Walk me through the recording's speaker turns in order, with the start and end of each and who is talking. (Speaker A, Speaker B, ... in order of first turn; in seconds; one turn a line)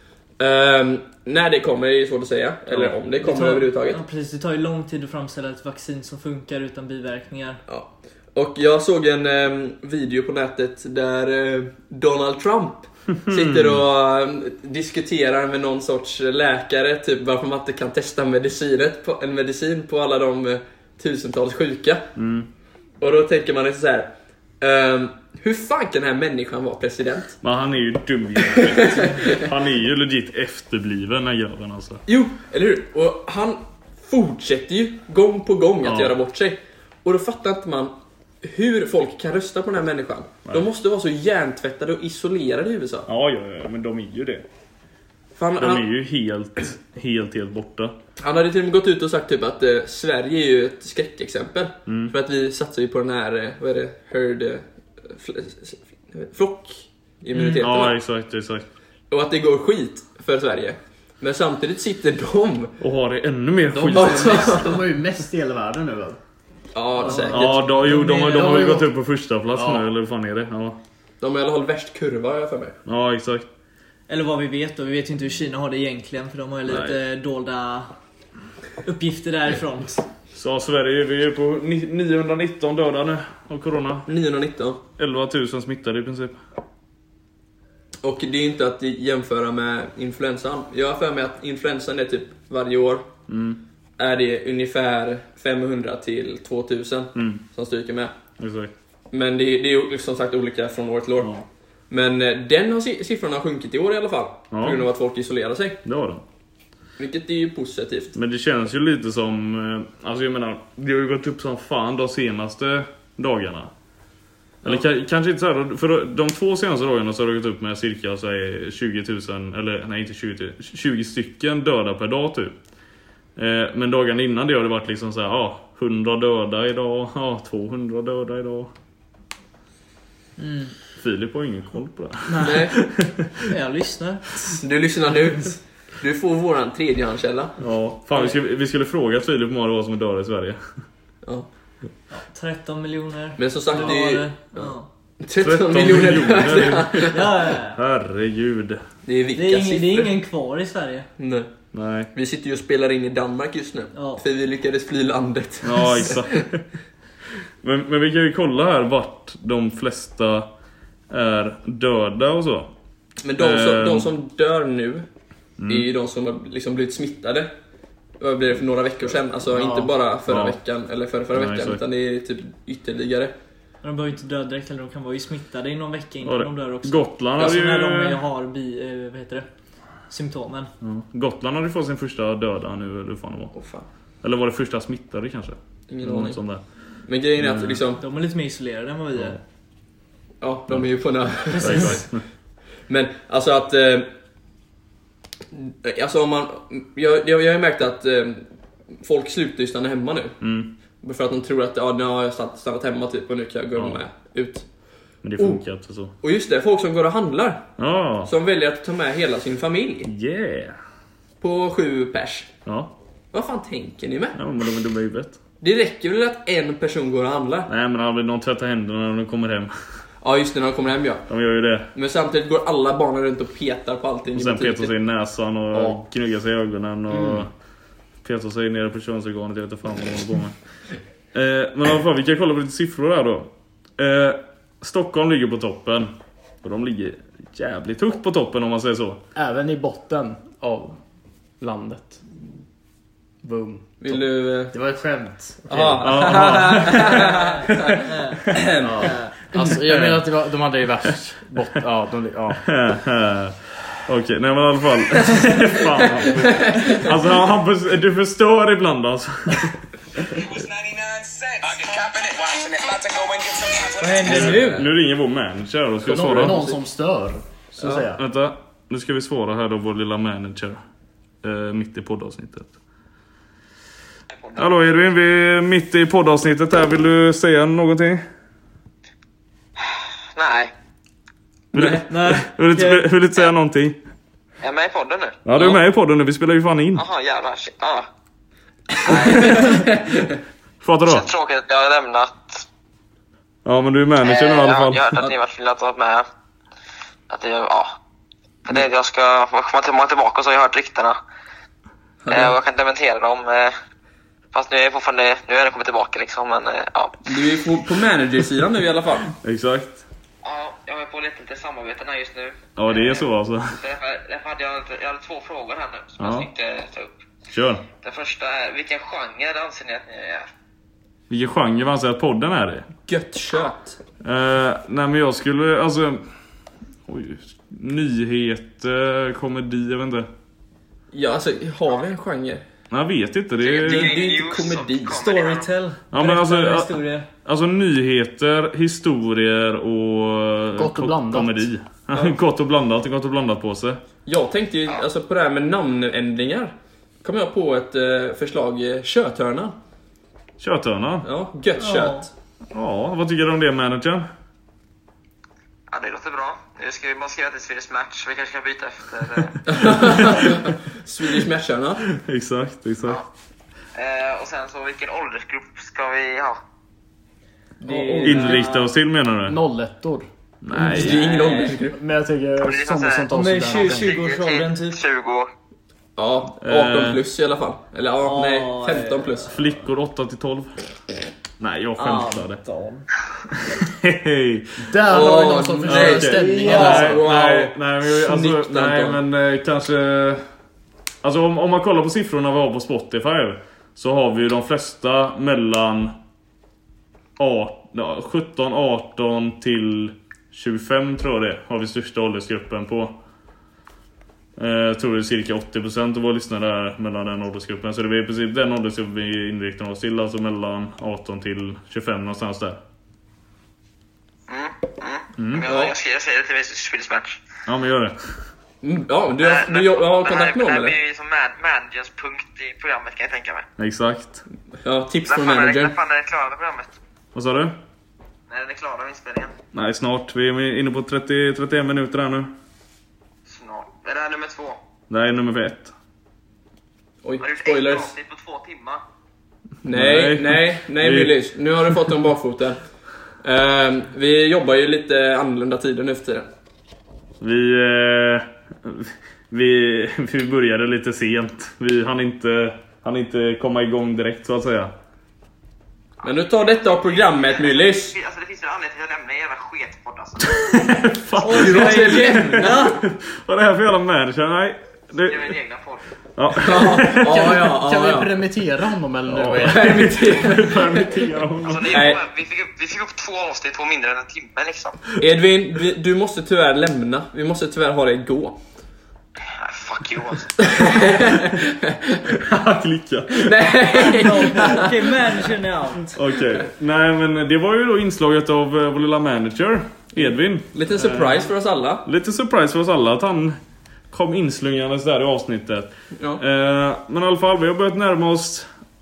Speaker A: 0.4-4.0
Speaker B: 2.7-3.0
Speaker C: 3.2-7.6
Speaker A: 7.7-22.1
Speaker B: 13.2-13.8
Speaker B: 22.1-22.5
Speaker A: 23.0-24.1
Speaker A: 24.6-27.4
Speaker B: 27.4-32.0
Speaker A: 28.5-29.4
Speaker A: 32.1-43.1
Speaker B: 35.8-36.1
Speaker B: 43.1-44.4
Speaker A: 45.4-45.9
Speaker B: 45.6-48.0
Speaker A: 48.2-58.0
Speaker B: 51.9-52.1
Speaker C: 57.3-57.6
Speaker B: 57.6-58.6
Speaker A: 59.1-62.8
Speaker B: 62.8-64.6
Speaker D: 63.7-66.2
Speaker A: 63.8-64.8
Speaker A: 66.7-67.6
Speaker C: 67.0-67.5
Speaker B: 67.2-70.8
Speaker D: 67.8-68.9
Speaker D: 69.5-69.9
Speaker A: 71.2-72.8
Speaker B: 72.8-73.5
Speaker C: 74.1-77.9
Speaker B: 76.7-77.0
Speaker C: 78.8-80.0
Speaker B: 80.3-84.1
Speaker A: 84.1-84.8
Speaker B: 85.0-86.4
Speaker A: 88.0-93.1
Speaker B: 93.3-93.6
Speaker A: 94.0-98.1
Speaker B: 97.1-97.4
Speaker B: 98.4-98.7
Speaker A: 99.1-101.3
Speaker A: 101.9-105.8
Speaker B: 104.5-104.8
Speaker B: 105.8-106.2
Speaker A: 107.0-108.2
Speaker B: 108.1-113.7
Speaker B: 114.6-122.5
Speaker B: 123.3-128.7
Speaker C: 130.4-130.7
Speaker B: 131.0-133.4
Speaker A: 132.4-132.8
Speaker C: 133.4-134.4
Speaker A: 134.4-137.6
Speaker B: 137.6-140.6
Speaker C: 142.1-144.9
Speaker A: 143.4-144.3
Speaker A: 145.2-147.3
Speaker B: 145.4-148.8
Speaker C: 147.1-147.8
Speaker A: 149.1-150.1
Speaker C: 149.3-151.1
Speaker A: 151.2-151.5
Speaker B: 151.7-152.1
Speaker A: 152.1-156.4
Speaker C: 153.9-154.2
Speaker B: 155.6-156.6
Speaker B: 157.6-160.5
Speaker B: 161.1-162.7
Speaker A: 163.2-165.1
Speaker B: 163.4-164.1
Speaker B: 165.6-165.9
Speaker A: 165.7-167.5
Speaker A: 168.2-173.3
Speaker D: 169.5-169.9
Speaker B: 170.3-170.6
Speaker B: 171.3-171.8
Speaker C: 173.8-179.4
Speaker B: 176.2-178.2
Speaker C: 180.1-180.7
Speaker B: 180.8-183.5
Speaker A: 183.5-183.8
Speaker B: 184.2-186.6
Speaker A: 185.9-186.4
Speaker A: 187.1-188.0
Speaker B: 187.4-187.8
Speaker C: 188.0-189.4
Speaker A: 190.4-192.1
Speaker B: 191.4-192.2
Speaker C: 191.5-192.0
Speaker A: 192.9-194.1
Speaker A: 195.5-198.4
Speaker A: 198.9-200.4
Speaker B: 200.4-200.7
Speaker A: 201.0-204.6
Speaker B: 205.2-206.1
Speaker A: 206.2-207.7
Speaker B: 207.8-208.3
Speaker A: 208.2-210.1
Speaker B: 210.1-210.8
Speaker A: 211.4-212.5
Speaker B: 212.7-212.9
Speaker A: 213.3-214.4
Speaker B: 214.3-215.4
Speaker A: 215.6-217.7
Speaker B: 217.7-219.7
Speaker A: 220.2-221.3
Speaker B: 221.3-221.9
Speaker A: 221.9-224.9
Speaker B: 224.3-227.5
Speaker A: 225.7-226.0
Speaker A: 227.1-227.4
Speaker B: 228.2-230.6
Speaker B: 231.3-239.2
Speaker D: 239.3-241.0
Speaker D: 241.6-242.2
Speaker D: 243.4-246.9
Speaker A: 244.0-244.7
Speaker A: 245.7-248.9
Speaker B: 246.0-247.2
Speaker C: 247.0-249.3
Speaker D: 248.8-252.6
Speaker B: 249.6-250.2
Speaker B: 252.6-259.8
Speaker A: 256.3-257.0
Speaker E: 260.3-264.6
Speaker C: 264.0-264.9
Speaker B: 264.2-266.6
Speaker A: 264.3-264.8
Speaker D: 266.0-268.2
Speaker A: 266.1-266.8
Speaker A: 267.8-268.1
Speaker B: 268.1-270.8
Speaker B: 271.4-272.7
Speaker B: 274.6-278.2
Speaker F: 279.8-280.7
Speaker B: 281.7-284.0
Speaker C: 282.1-283.1
Speaker F: 284.6-285.8
Speaker B: 285.4-287.0
Speaker F: 286.9-288.1
Speaker F: 289.0-289.8
Speaker B: 289.1-289.4
Speaker A: 289.1-290.4
Speaker B: 290.8-291.3
Speaker F: 291.0-292.6
Speaker B: 293.6-295.2
Speaker F: 294.2-296.2
Speaker F: 297.3-297.9
Speaker F: 298.6-301.2
Speaker A: 302.2-302.5
Speaker F: 302.3-303.7
Speaker F: 304.5-307.4
Speaker A: 307.2-309.3
Speaker B: 309.4-310.0
Speaker F: 310.4-317.1
Speaker B: 312.8-313.8
Speaker B: 316.2-316.5
Speaker B: 317.5-317.9
Speaker F: 318.0-320.5
Speaker B: 321.3-322.9
Speaker A: 323.1-324.0
Speaker B: 324.2-326.2
Speaker B: 327.1-330.3
Speaker A: 331.1-332.6
Speaker B: 332.9-334.1
Speaker F: 333.6-335.7
Speaker A: 333.8-335.2
Speaker C: 335.1-337.3
Speaker B: 336.1-344.0
Speaker D: 340.8-341.7
Speaker A: 344.2-349.8
Speaker B: 350.6-351.3
Speaker A: 351.2-352.3
Speaker C: 351.8-352.2
Speaker B: 352.7-354.2
Speaker F: 355.9-359.9
Speaker A: 359.7-362.0
Speaker B: 362.2-363.2
Speaker F: 363.9-366.6
Speaker A: 367.8-368.7
Speaker C: 367.8-368.9
Speaker B: 368.2-369.6
Speaker D: 369.4-370.3
Speaker B: 370.6-371.3
Speaker A: 370.7-372.0
Speaker D: 371.9-374.1
Speaker F: 372.6-375.5
Speaker C: 373.3-375.0
Speaker A: 376.2-379.6
Speaker B: 376.6-377.2
Speaker C: 378.2-379.5
Speaker B: 379.5-380.7
Speaker B: 381.6-382.6
Speaker C: 382.0-383.1
Speaker B: 383.9-384.8
Speaker D: 384.8-387.2
Speaker A: 385.1-389.2
Speaker B: 385.8-390.4
Speaker C: 386.4-386.8
Speaker B: 391.2-396.1
Speaker B: 397.4-403.1
Speaker B: 404.6-412.8
Speaker F: 414.5-417.4
Speaker B: 415.4-415.7
Speaker A: 415.6-415.9
Speaker B: 417.6-418.2
Speaker A: 418.8-421.0
Speaker F: 419.4-423.6
Speaker B: 423.8-424.4
Speaker A: 424.8-426.0
Speaker F: 425.3-426.9
Speaker B: 427.3-427.8
Speaker F: 428.5-429.5
Speaker B: 429.7-432.5
Speaker F: 433.4-434.8
Speaker B: 435.1-435.9
Speaker A: 437.2-438.1
Speaker F: 437.4-439.0
Speaker A: 439.8-442.8
Speaker B: 439.9-441.3
Speaker A: 443.4-446.5
Speaker B: 447.4-454.9
Speaker A: 456.2-458.2
Speaker F: 456.2-460.6
Speaker B: 460.5-465.5
Speaker C: 461.4-463.0
Speaker A: 461.5-463.0
Speaker F: 465.3-466.0
Speaker B: 466.4-467.6
Speaker A: 466.6-468.3
Speaker D: 467.3-470.4
Speaker B: 469.3-472.1
Speaker A: 469.4-471.3
Speaker F: 471.6-475.0
Speaker A: 471.9-472.2
Speaker A: 475.2-478.6
Speaker F: 479.4-481.2
Speaker A: 480.6-482.4
Speaker B: 482.3-484.4
Speaker A: 483.3-485.0
Speaker C: 484.0-486.2
Speaker B: 486.1-491.5
Speaker A: 490.1-492.0
Speaker B: 492.0-493.6
Speaker B: 494.1-498.7
Speaker A: 496.2-496.4